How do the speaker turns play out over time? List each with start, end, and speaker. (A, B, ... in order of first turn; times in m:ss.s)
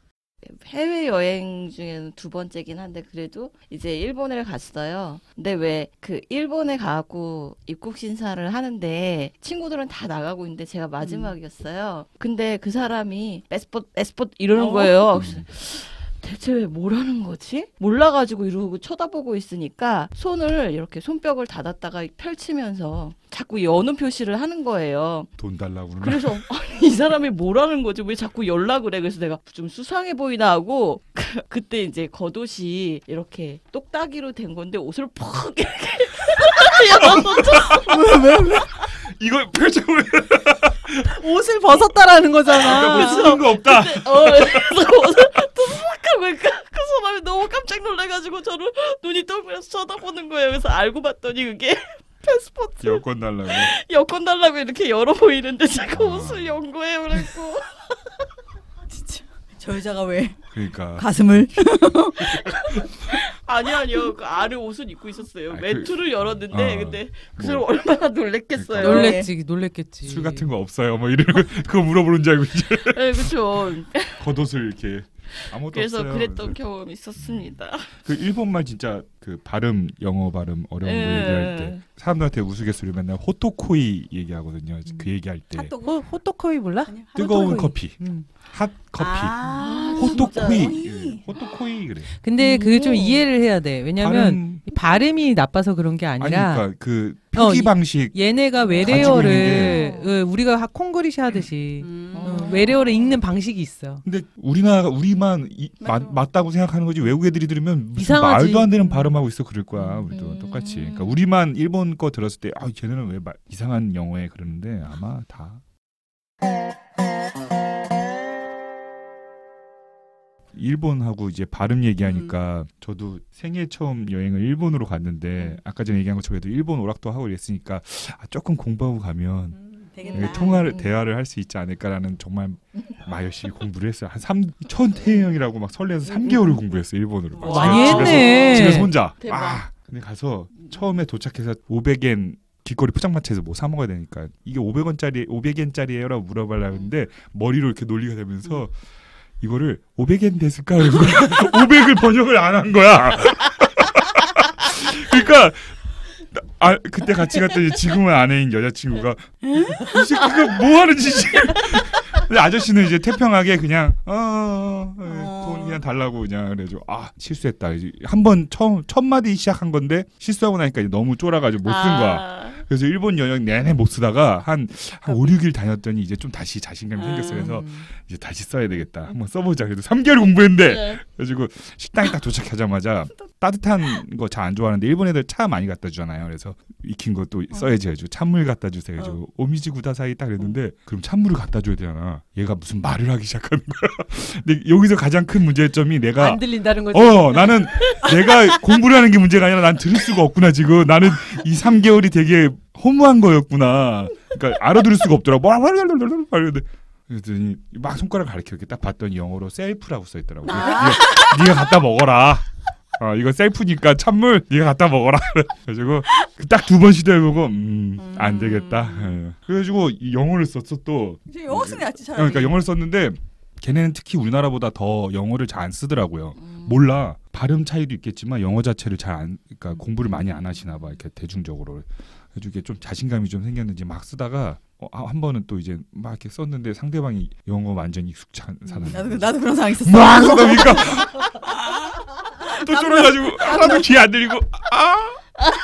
0:00.4-0:25.3 A
0:11.0-0:11.3 B
0:14.6-0:15.0 B
0:15.1-0:15.5 C
0:25.4-0:26.4 C
0:26.0-0:38.2 A
0:37.0-0:38.0 C
0:37.9-0:38.7 B
0:38.7-0:41.2 C
0:41.1-0:43.3 D
0:42.5-0:58.1 A
0:42.6-0:44.7 C
0:52.8-0:53.7 C
0:55.9-0:56.6 C
0:58.9-1:00.4 B
1:00.5-1:01.8 C
1:01.0-1:02.9 B
1:02.3-1:03.0 C
1:03.1-1:09.2 A
1:05.5-1:07.7 C
1:08.6-1:09.1 C
1:08.8-1:10.5 D
1:08.8-1:09.3 B
1:10.0-1:13.3 C
1:12.7-1:14.3 A
1:14.2-1:16.6 C
1:15.4-1:18.0 A
1:17.2-1:25.7 C
1:20.8-1:21.8 A
1:25.6-1:26.0 B
1:25.8-1:28.3 D
1:26.9-1:27.8 B
1:27.2-1:29.4 C
1:29.0-1:31.2 B
1:29.6-1:30.8 A
1:30.0-1:32.1 C
1:32.2-1:36.7 D
1:32.4-1:33.2 A
1:34.0-1:34.7 C
1:36.2-1:38.2 C
1:37.4-1:44.0 D
1:38.8-1:39.8 C
1:38.9-1:39.4 B
1:38.9-1:40.1 A
1:41.8-1:42.8 B
1:42.1-1:43.0 A
1:44.0-1:55.6 C
1:45.8-1:46.2 B
1:48.0-1:49.2 D
1:50.1-1:51.2 A
2:00.5-2:09.6 C
2:02.0-2:02.3 B
2:09.6-2:10.6 B
2:10.0-2:10.9 A
2:10.1-2:28.8 C
2:16.1-2:16.6 A
2:17.3-2:18.5 B
2:17.4-2:19.7 A
2:17.5-2:18.9 D
2:29.4-4:01.5 C
2:39.5-2:40.0 B
2:45.0-2:45.8 B
2:51.6-2:52.6 A
2:57.0-2:57.6 B
2:57.3-2:57.9 A
3:00.6-3:01.0 A
3:16.2-3:18.0 D
3:30.5-3:31.4 B
3:38.0-3:38.7 B
3:41.3-3:42.6 B
3:46.4-3:46.9 A
3:58.7-4:03.9 B
4:02.4-4:05.4 C